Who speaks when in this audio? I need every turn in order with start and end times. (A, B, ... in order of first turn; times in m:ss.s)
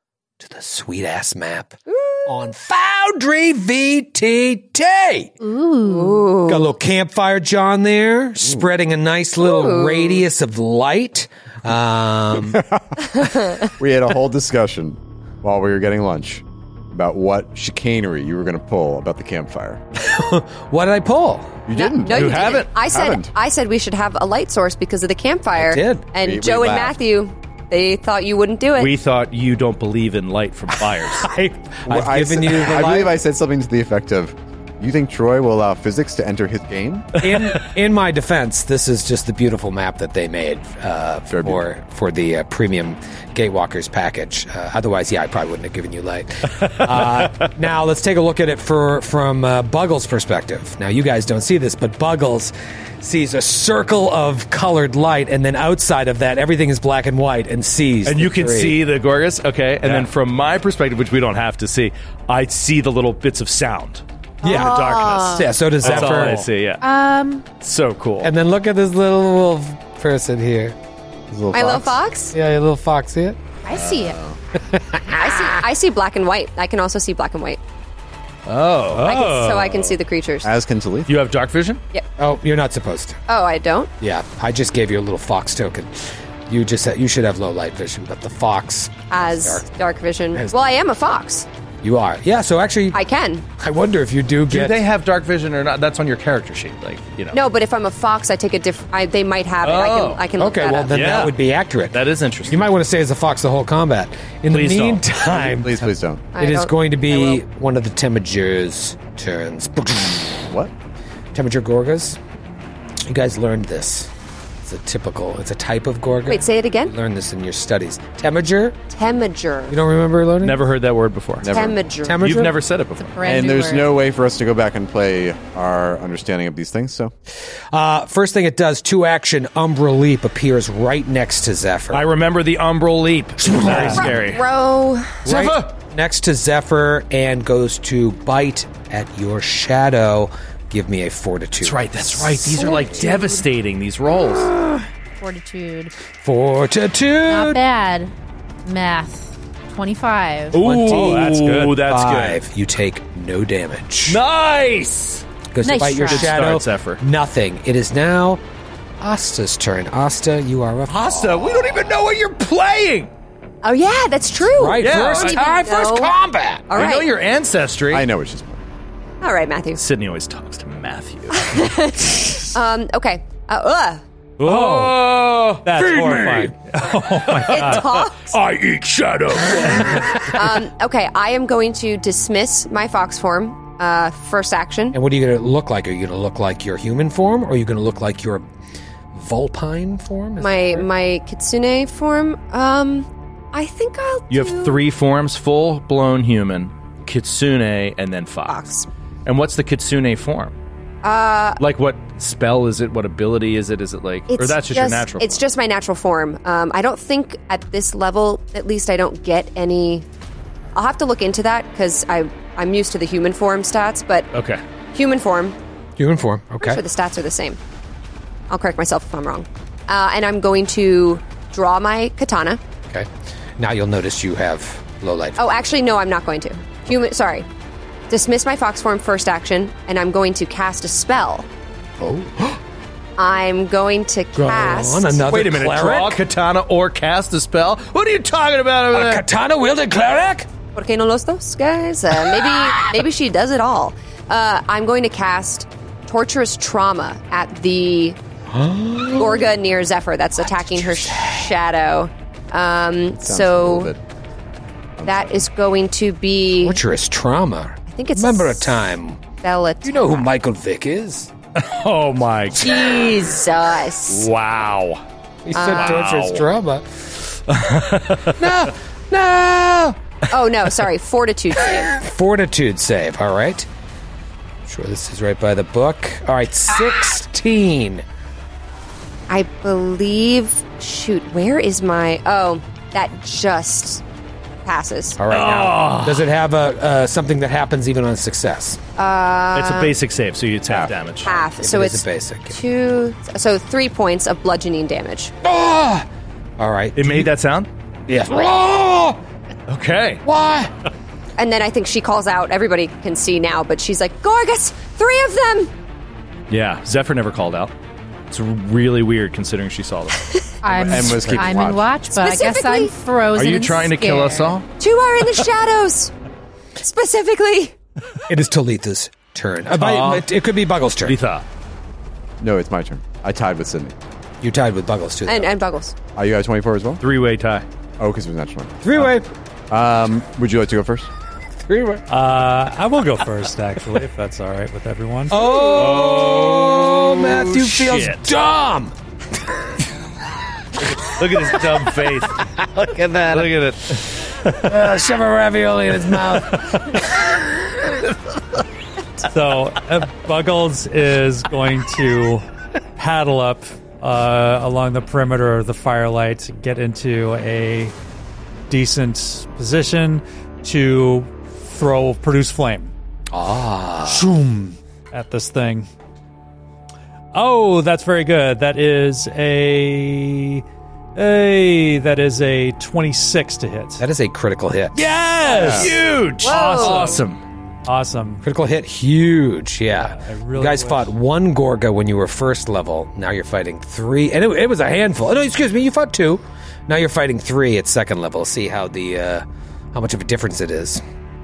0:00.4-0:05.4 A
0:01.9-0:02.3 B
0:05.4-0:06.3 C
0:05.8-0:06.7 B
0:06.5-0:12.6 A
0:09.4-0:10.2 B
0:12.4-0:19.8 D
0:13.2-0:13.7 B
0:20.0-0:21.6 A
0:21.7-0:23.3 D
0:21.8-0:28.9 B
0:22.1-0:22.7 E
0:25.6-0:26.1 A
0:26.2-0:27.0 D
0:28.8-0:31.3 E
0:30.9-0:33.1 A
0:31.9-0:37.2 D
0:37.2-0:58.8 A
0:41.3-0:41.6 D
0:58.0-1:06.8 E
1:04.4-1:06.4 A
1:04.4-1:05.5 B
1:05.8-1:06.5 F
1:06.8-1:07.4 C
1:07.6-1:08.3 E
1:08.2-1:10.8 A
1:11.3-1:12.0 D
1:11.5-1:12.3 B
1:12.3-1:13.4 A
1:13.6-1:14.2 C
1:13.7-1:14.4 D
1:14.7-1:15.5 A
1:15.2-1:17.6 B
1:18.5-1:19.1 E
1:18.9-1:19.8 F
1:19.0-1:20.5 B
1:20.4-1:21.1 D
1:21.1-1:21.8 E
1:22.2-1:23.2 A
1:23.3-1:23.9 B
1:24.0-1:29.7 A
1:29.1-1:31.5 B
1:31.8-1:33.0 A
1:32.9-1:33.4 B
1:33.6-1:34.8 A
1:34.5-1:37.4 E
1:37.3-1:41.0 B
1:39.6-1:40.2 E
1:40.4-1:45.9 A
1:40.9-1:41.4 E
1:41.9-1:42.7 E
1:44.5-1:45.0 E
1:45.3-1:46.4 D
1:46.4-1:47.4 B
1:46.4-1:50.5 A
1:51.3-1:52.2 A
1:53.0-1:54.1 A
1:54.6-1:58.8 A
1:56.3-1:56.9 B
1:58.9-1:59.8 B
1:59.7-2:00.6 A
2:00.4-2:01.5 E
2:01.4-2:01.8 D
2:01.5-2:02.3 B
2:02.0-2:02.5 A
2:02.2-2:03.1 E
2:03.0-2:03.9 C
2:03.2-2:07.1 D
2:07.7-2:12.0 A
2:11.9-2:14.4 E
2:13.6-2:14.1 A
2:13.7-2:13.9 F
2:13.9-2:15.2 B
2:15.2-2:15.7 E
2:15.2-2:22.8 A
2:21.6-2:24.5 E
2:25.2-2:25.9 C
2:26.2-2:27.6 A
2:27.3-2:28.1 C
2:28.7-2:30.6 C
2:30.5-2:32.4 E
2:30.6-2:34.2 A
2:30.8-2:31.8 F
2:34.1-2:35.2 E
2:35.5-2:38.4 A
2:35.6-2:36.3 C
2:36.0-2:37.0 E
2:39.0-2:41.8 A
2:40.9-2:43.1 E
2:43.6-2:46.1 B
2:44.5-2:46.8 A
2:44.8-2:45.4 E
2:46.7-2:47.1 B
2:46.7-2:48.1 E
2:47.9-2:48.6 D
2:49.2-2:49.8 B
2:49.8-2:51.6 E
2:51.3-2:54.0 B
2:54.4-2:55.1 F
2:54.4-2:56.5 E
2:55.6-2:57.9 F
2:57.5-3:00.3 E
2:57.5-2:58.4 B
2:59.6-3:00.3 F
3:00.3-3:05.0 B
3:04.9-3:08.5 A
3:09.1-3:10.9 A
3:10.4-3:14.8 B
3:14.3-3:18.7 E
3:18.5-3:18.9 B
3:19.2-3:20.5 E
3:21.0-3:21.6 B
3:21.6-3:25.5 E
3:24.3-3:30.0 B
3:30.7-3:34.3 B
3:34.3-3:34.6 E
3:34.9-3:35.6 B
3:36.0-3:36.8 A
3:36.6-3:37.6 B
3:38.5-3:42.6 B
3:42.9-3:45.5 A
3:45.4-3:47.5 B
3:48.1-3:51.5 B
3:52.0-3:52.6 A
3:53.2-3:55.2 B
3:54.4-3:56.2 A
3:55.2-3:59.2 E
3:58.9-4:00.5 A
4:00.8-4:08.2 B
4:02.3-4:02.8 A
4:08.5-4:09.5 A
4:09.2-4:13.9 B
4:10.5-4:11.4 A
4:13.2-4:14.0 D
4:15.0-4:15.5 D
4:15.0-4:16.8 B
4:16.6-4:21.3 A
4:17.9-4:18.7 B
4:19.4-4:20.3 B
4:21.6-4:23.0 E
4:22.6-4:24.3 B
4:24.1-4:25.0 E
4:25.5-4:26.8 A
4:25.5-4:26.1 B
4:25.6-4:26.4 E
4:27.5-4:28.6 E
4:28.4-4:30.0 A
4:30.3-4:31.9 B
4:31.9-4:33.7 A
4:34.7-4:38.0 A
4:39.3-4:44.0 B
4:44.6-4:45.2 B
4:45.2-4:48.8 A
4:45.3-4:46.3 E
4:49.0-4:49.9 B
4:49.6-4:51.3 E
4:51.2-4:55.3 B
4:51.6-4:52.6 A
4:55.4-4:56.1 A
4:56.6-4:57.3 A
4:57.0-4:57.7 E
4:58.1-4:59.2 A
4:59.7-5:00.2 E
5:00.3-5:00.7 A
5:01.4-5:05.7 B
5:06.5-5:07.7 E
5:08.3-5:10.3 E
5:10.6-5:14.6 C
5:10.9-5:11.4 A
5:10.9-5:11.9 D
5:12.1-5:12.9 B
5:13.4-5:14.7 E
5:14.8-5:16.1 B
5:16.8-5:17.8 B
5:18.3-5:21.2 A
5:19.7-5:20.3 E
5:21.0-5:21.4 E
5:22.4-5:24.0 D
5:24.4-5:25.6 A
5:25.3-5:26.0 B
5:26.2-5:27.0 D
5:27.0-5:27.7 E
5:28.0-5:29.1 D
5:28.8-5:29.3 A
5:29.7-5:31.1 D
5:31.6-5:32.0 A
5:32.1-5:35.5 F
5:35.3-5:38.9 A
5:35.7-5:38.3 E
5:41.0-5:42.4 E
5:42.6-5:44.0 A
5:43.3-5:44.0 E
5:44.6-5:47.5 A
5:49.2-5:52.4 F
5:53.0-5:58.0 F
5:58.7-6:02.9 F
6:03.3-6:04.3 A
6:04.1-6:05.9 F
6:07.3-6:10.6 F
6:11.2-6:14.0 F
6:14.0-6:15.8 A
6:14.9-6:17.2 F
6:15.6-6:15.9 D
6:15.7-6:17.4 E
6:16.4-6:17.1 B
6:17.9-6:18.4 F
6:18.4-6:31.0 A
6:20.0-6:21.1 F